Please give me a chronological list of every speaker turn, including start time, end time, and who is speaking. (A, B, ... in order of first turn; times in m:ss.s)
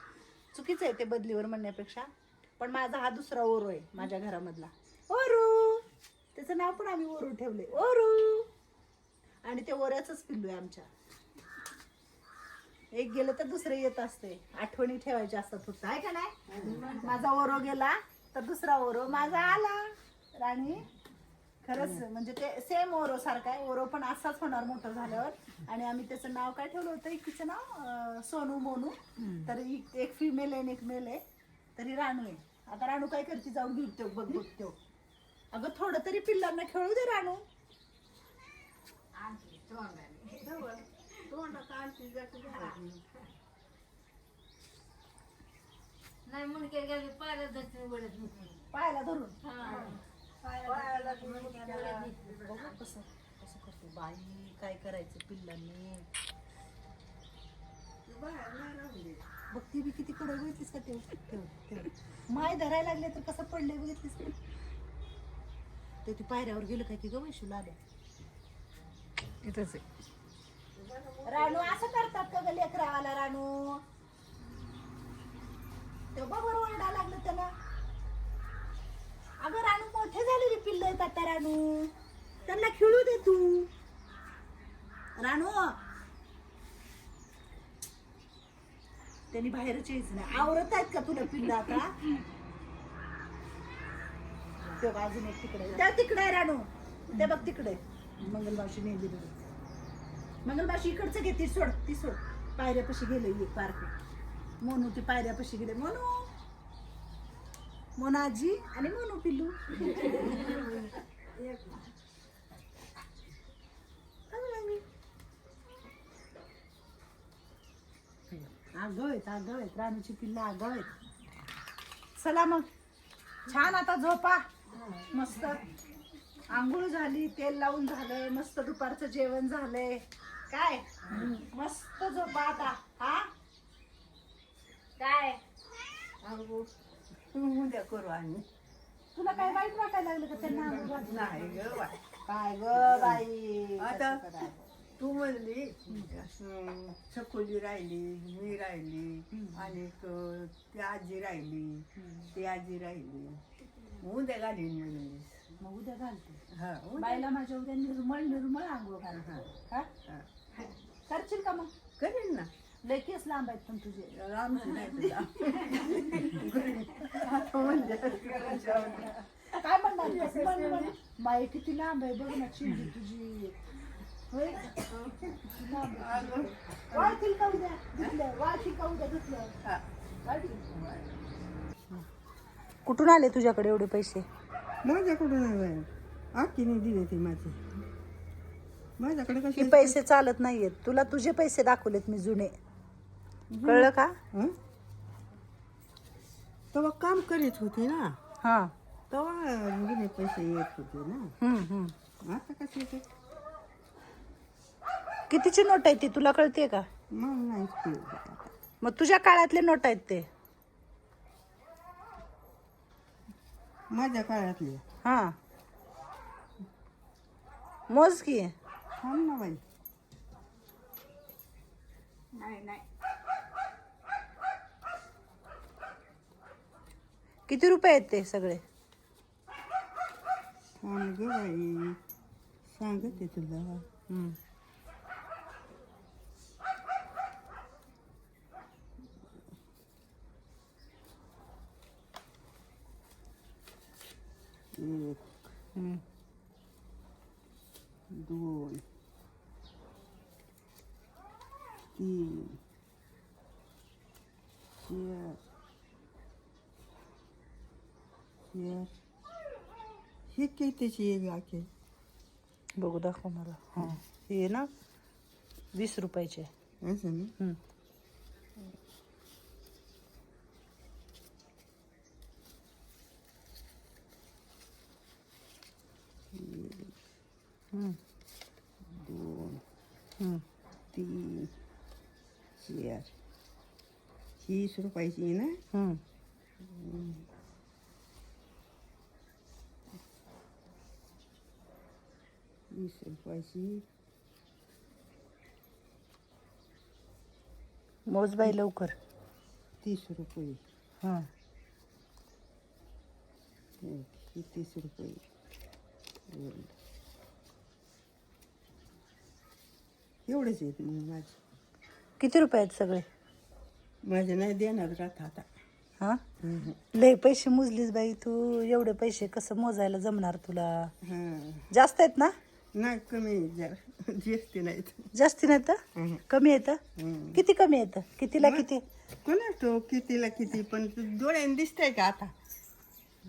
0:00.5-0:05.8 A
0:06.4-0:08.5 A
0:09.4-0:10.9 A
0:12.9-0:16.4 A
0:16.5-0:17.2 B
0:16.5-0:16.9 C
0:16.9-0:20.9 A
0:21.6-0:31.2 A
0:21.7-0:22.0 B
0:31.8-0:34.8 A
0:35.5-0:37.4 A
0:39.2-0:40.7 C
0:40.4-0:43.0 B
0:46.3-0:48.6 C
0:48.7-0:49.4 A
0:49.4-0:52.6 C
0:49.6-0:50.0 B
0:50.5-0:52.7 B
0:52.2-0:56.1 A
0:58.1-0:59.2 B
0:59.5-1:04.4 A
1:06.0-1:07.8 A
1:09.4-1:09.8 C
1:10.8-1:11.9 B
1:11.3-1:13.8 A
1:16.1-1:17.5 A
1:19.4-1:21.9 A
1:22.4-1:23.7 A
1:25.2-1:25.8 A
1:29.3-1:32.1 A
1:34.8-1:39.4 A
1:40.4-1:44.0 A
1:44.6-1:46.3 A
1:48.0-1:50.5 A
1:50.2-1:50.9 B
1:54.3-1:54.8 A
1:58.6-2:00.9 A
2:02.2-2:02.7 A
2:03.5-2:04.5 A
2:05.1-2:05.7 A
2:06.5-2:13.3 A
2:11.1-2:11.4 B
2:15.0-2:15.4 A
2:16.2-2:16.7 B
2:17.3-2:18.5 B
2:19.2-2:21.8 A
2:19.3-2:19.6 B
2:20.3-2:22.0 B
2:22.3-2:24.5 A
2:22.7-2:23.3 B
2:23.8-2:33.4 B
2:29.3-2:29.8 A
2:32.0-2:32.3 A
2:34.0-2:35.5 B
2:35.6-2:36.4 A
2:36.5-2:37.3 B
2:37.0-2:39.9 A
2:39.1-2:39.5 B
2:41.1-2:41.7 A
2:42.0-2:42.5 B
2:42.8-2:44.8 A
2:44.1-2:49.2 B
2:47.0-2:53.6 A
2:50.0-2:50.9 B
2:54.3-2:59.5 A
2:54.9-2:57.3 B
3:00.2-3:00.7 A
3:00.5-3:01.1 B
3:02.9-3:04.2 A
3:04.8-3:07.6 B
3:09.0-3:10.0 B
3:09.6-3:12.5 A
3:13.5-3:14.6 B
3:13.6-3:14.2 A
3:16.7-3:18.2 B
3:18.4-3:18.7 A
3:19.1-3:21.3 B
3:21.4-3:22.0 A
3:22.2-3:23.1 B
3:25.3-3:26.9 A
3:27.1-3:28.5 B
3:28.8-3:30.3 A
3:33.9-3:34.8 B
3:35.0-3:35.4 A
3:37.9-3:38.5 A
3:39.0-3:39.6 B
3:42.4-3:42.8 A
3:47.5-3:48.6 A
3:50.8-3:52.0 B
3:52.7-3:53.9 B
3:54.1-3:54.4 A
4:04.7-4:05.5 B
4:05.8-4:06.0 A
4:08.1-4:08.8 B
4:12.0-4:12.6 B
4:14.8-4:15.4 B
4:18.5-4:18.9 B
4:20.3-4:21.7 B
4:22.8-4:24.7 A
4:25.7-4:26.5 A
4:26.8-4:27.3 B
4:36.3-4:36.9 B
4:37.7-4:38.0 A
4:38.9-4:39.6 B
4:40.9-4:41.5 B
4:42.6-4:43.1 B
4:44.4-4:45.6 B
4:45.7-4:46.0 A
4:46.6-4:47.3 B
4:52.7-4:53.8 B
4:58.1-4:59.0 A
4:59.8-5:00.6 B
5:01.0-5:01.3 A
5:03.8-5:05.2 B
5:06.3-5:06.7 B
5:10.3-5:11.4 B
5:12.2-5:13.1 A
5:14.0-5:15.5 B
5:16.4-5:16.8 B
5:16.9-5:20.9 A
5:21.0-5:21.7 B
5:21.7-5:22.3 A
5:22.7-5:25.1 B
5:25.1-5:26.8 A
5:26.0-5:26.2 B
5:27.0-5:27.4 B
5:27.3-5:28.8 A
5:28.4-5:28.7 B
5:29.2-5:32.3 B